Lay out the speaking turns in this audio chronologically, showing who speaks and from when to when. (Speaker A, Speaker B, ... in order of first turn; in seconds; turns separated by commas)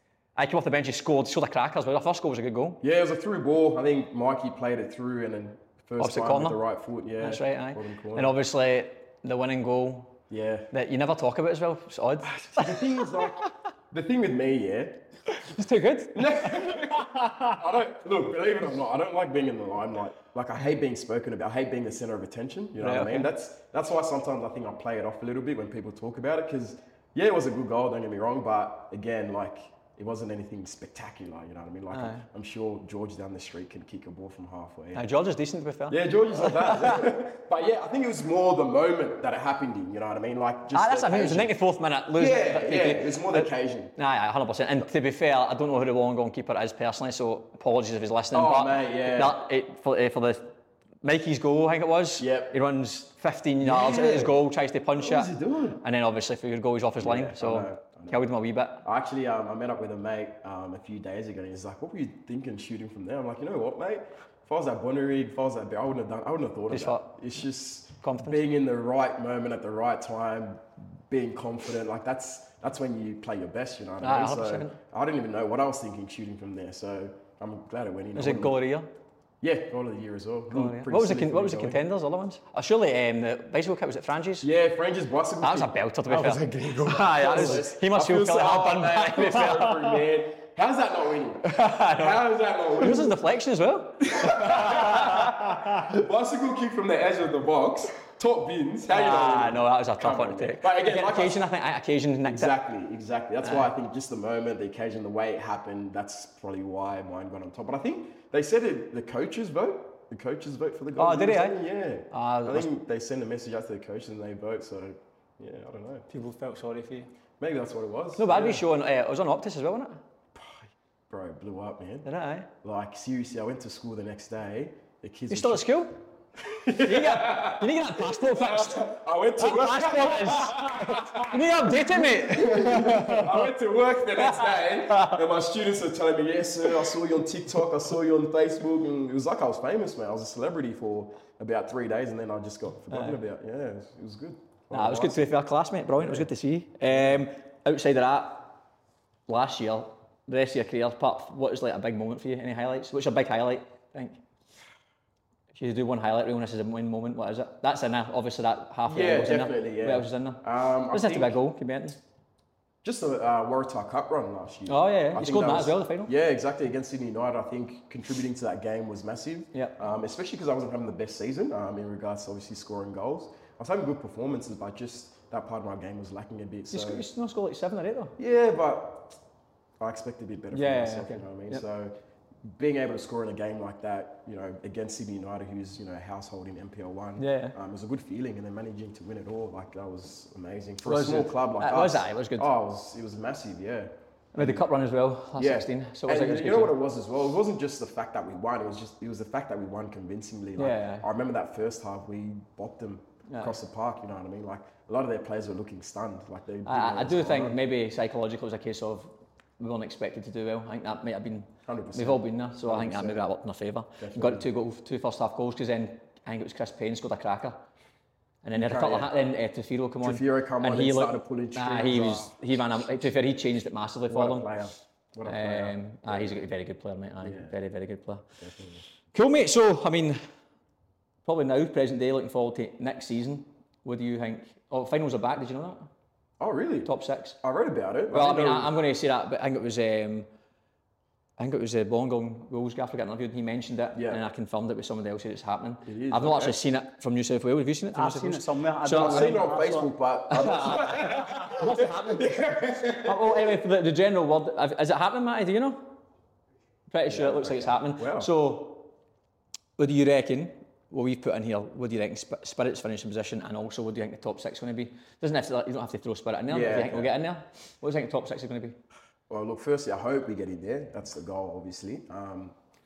Speaker A: 0.4-2.8, Speaker B: 2.8-8.4, Speaker A: 6.0-6.6, Speaker A: 7.2-13.5, Speaker B: 10.3-10.7, Speaker B: 12.3-15.0, Speaker A: 15.3-17.3, Speaker B: 16.1-35.0, Speaker A: 22.8-23.3, Speaker A: 31.9-32.3, Speaker A: 34.9-37.1, Speaker B: 35.9-41.6, Speaker A: 40.7-58.9, Speaker B: 42.2-43.9, Speaker B: 48.3-49.4, Speaker B: 52.2-52.5, Speaker B: 53.6-54.4, Speaker B: 55.0-55.8, Speaker B: 57.0-58.3, Speaker B: 58.8-78.6, Speaker A: 66.7-67.1, Speaker A: 68.0-68.4, Speaker A: 74.0-74.8, Speaker A: 78.2-78.9, Speaker B: 79.4-81.8, Speaker A: 80.5-84.5, Speaker B: 84.4-93.2, Speaker A: 85.4-89.8, Speaker C: 86.1-87.6, Speaker A: 91.5-92.2, Speaker A: 92.7-95.3, Speaker B: 94.1-101.4, Speaker A: 98.9-102.5, Speaker B: 102.2-116.1, Speaker A: 103.4-103.7, Speaker A: 111.0-112.7, Speaker C: 116.1-117.1, Speaker B: 117.4-118.7, Speaker A: 118.2-120.0, Speaker B: 120.3-122.1, Speaker A: 122.0-122.5, Speaker B: 122.6-125.7, Speaker A: 125.3-126.0, Speaker B: 126.4-145.3, Speaker A: 126.8-133.5, Speaker A: 134.2-135.2, Speaker A: 142.9-143.2, Speaker A: 144.7-148.6, Speaker B: 146.0-146.3, Speaker B: 146.9-147.2, Speaker A: 149.3-154.2, Speaker A: 155.5-162.0, Speaker B: 158.9-161.4, Speaker B: 162.8-177.1, Speaker A: 164.7-166.1, Speaker A: 176.7-178.2, Speaker B: 178.2-179.2, Speaker B: 179.8-194.7, Speaker A: 180.5-181.6, Speaker A: 187.2-187.6, Speaker A: 190.8-192.5, Speaker A: 194.3-196.8, Speaker B: 195.4-207.6, Speaker A: 200.6-201.1, Speaker A: 203.3-203.6, Speaker A: 206.7-217.7, Speaker B: 211.7-213.2, Speaker B: 214.0-214.4, Speaker A: 218.4-224.5, Speaker B: 218.6-219.1, Speaker B: 220.0-222.3, Speaker B: 224.1-226.4, Speaker A: 225.2-228.3, Speaker B: 227.2-227.6, Speaker B: 228.4-228.8, Speaker A: 229.1-230.2, Speaker A: 231.2-235.9, Speaker B: 236.4-238.7, Speaker A: 236.8-237.4, Speaker A: 238.1-240.3, Speaker A: 241.4-249.4, Speaker B: 243.9-244.2, Speaker B: 245.8-246.6, Speaker C: 247.9-249.9, Speaker B: 248.8-253.4, Speaker A: 250.3-255.9, Speaker A: 256.9-258.9, Speaker B: 257.1-258.3, Speaker A: 259.8-268.8, Speaker B: 266.5-267.1, Speaker B: 269.3-272.6